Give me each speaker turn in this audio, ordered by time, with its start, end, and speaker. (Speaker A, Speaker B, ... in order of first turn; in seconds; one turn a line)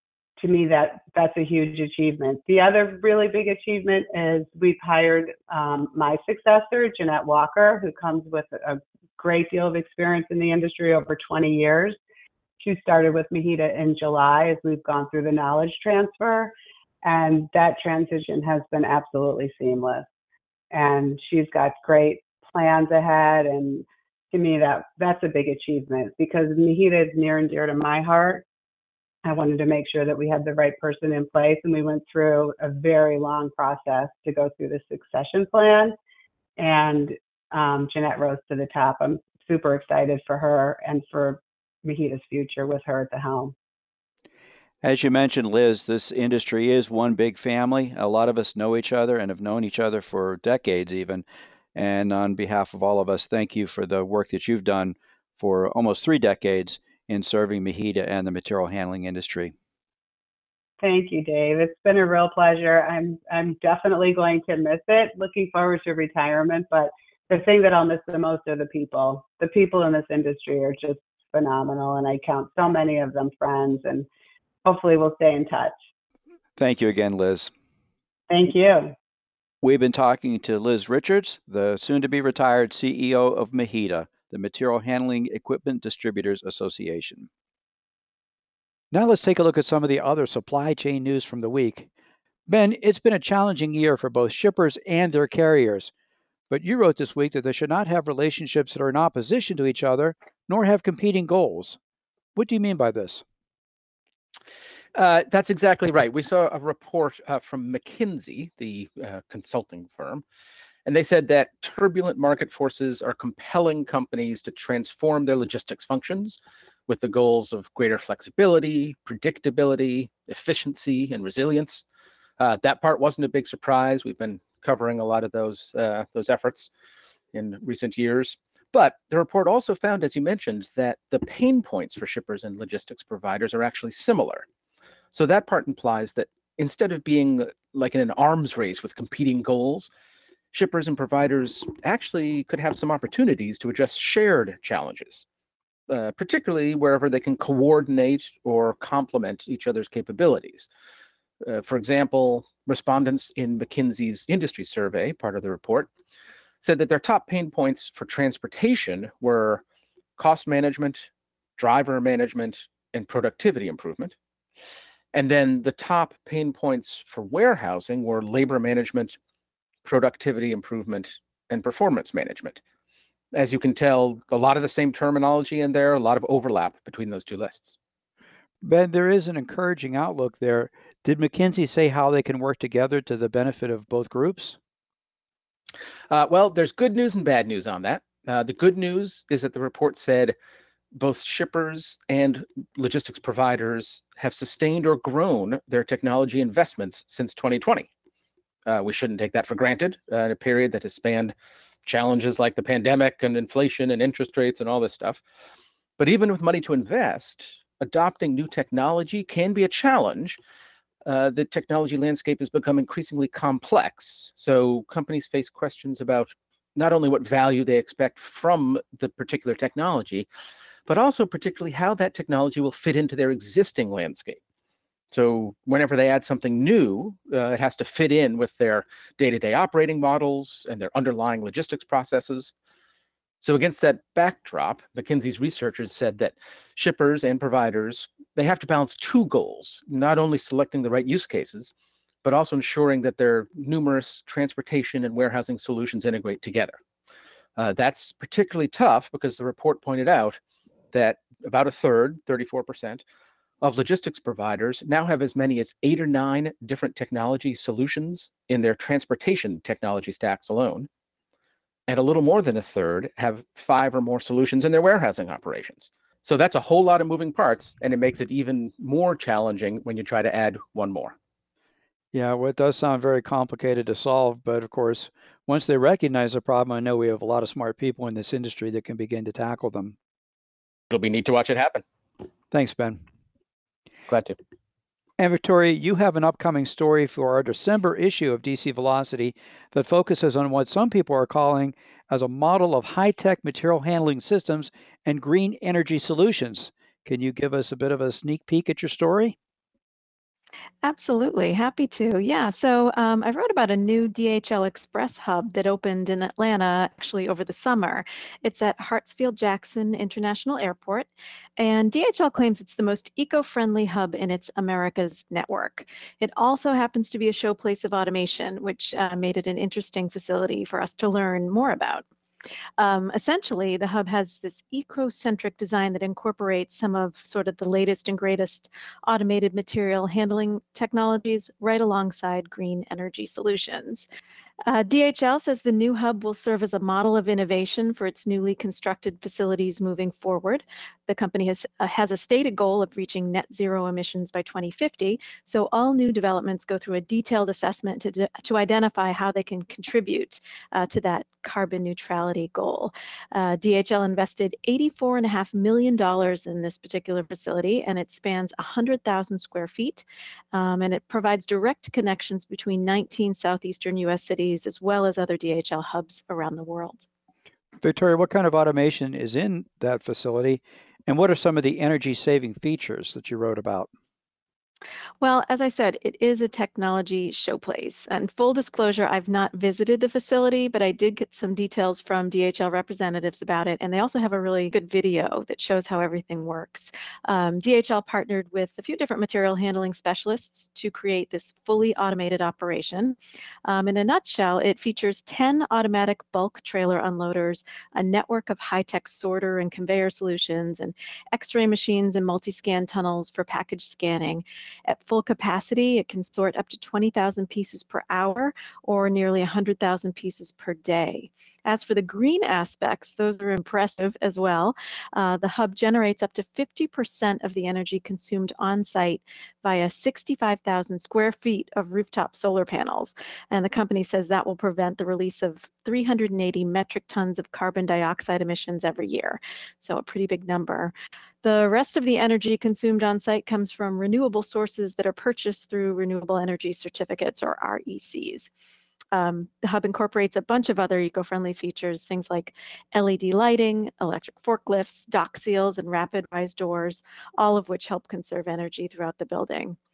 Speaker A: 0.4-12.0
Speaker A: 12.6-20.1
Speaker A: 20.7-28.5
Speaker A: 29.2-36.0
Speaker A: 36.6-43.5
Speaker B: 44.8-59.5
Speaker A: 60.8-74.1
Speaker A: 74.7-75.8
Speaker B: 76.6-77.5
Speaker A: 78.3-78.9
Speaker B: 79.6-87.3
Speaker B: 88.9-91.9
Speaker B: 92.5-95.9
Speaker B: 96.5-101.8
Speaker B: 102.4-103.2
Speaker C: 105.0-110.2
Speaker C: 110.9-121.8
Speaker C: 122.4-126.7
Speaker C: 127.3-134.5
Speaker C: 135.1-139.9
Speaker C: 140.5-145.2
Speaker C: 145.9-150.7
Speaker C: 151.5-155.9
Speaker C: 156.6-159.6
Speaker C: 160.2-164.2
Speaker C: 165.1-169.2
Speaker C: 169.8-172.6
Speaker C: 173.3-177.8
Speaker B: 178.6-184.6
Speaker C: 186.1-190.4
Speaker C: 191.0-197.9
Speaker C: 198.7-201.3
Speaker C: 201.8-205.2
Speaker C: 206.0-210.4
Speaker C: 211.1-220.3
Speaker C: 220.9-224.4
Speaker C: 225.1-232.5
Speaker C: 233.4-241.7
Speaker C: 242.2-246.8
Speaker C: 247.6-250.4
Speaker C: 250.9-253.0
Speaker C: 253.6-260.9
Speaker C: 261.9-271.2
Speaker B: 272.1-279.9
Speaker C: 280.9-281.8
Speaker B: 282.5-283.0
Speaker C: 284.1-284.4
Speaker B: 285.2-299.4
Speaker D: 300.8-322.0
Speaker D: 322.8-334.1
Speaker D: 334.7-367.1
Speaker B: 367.8-373.9
Speaker D: 375.2-438.5
Speaker D: 439.1-449.8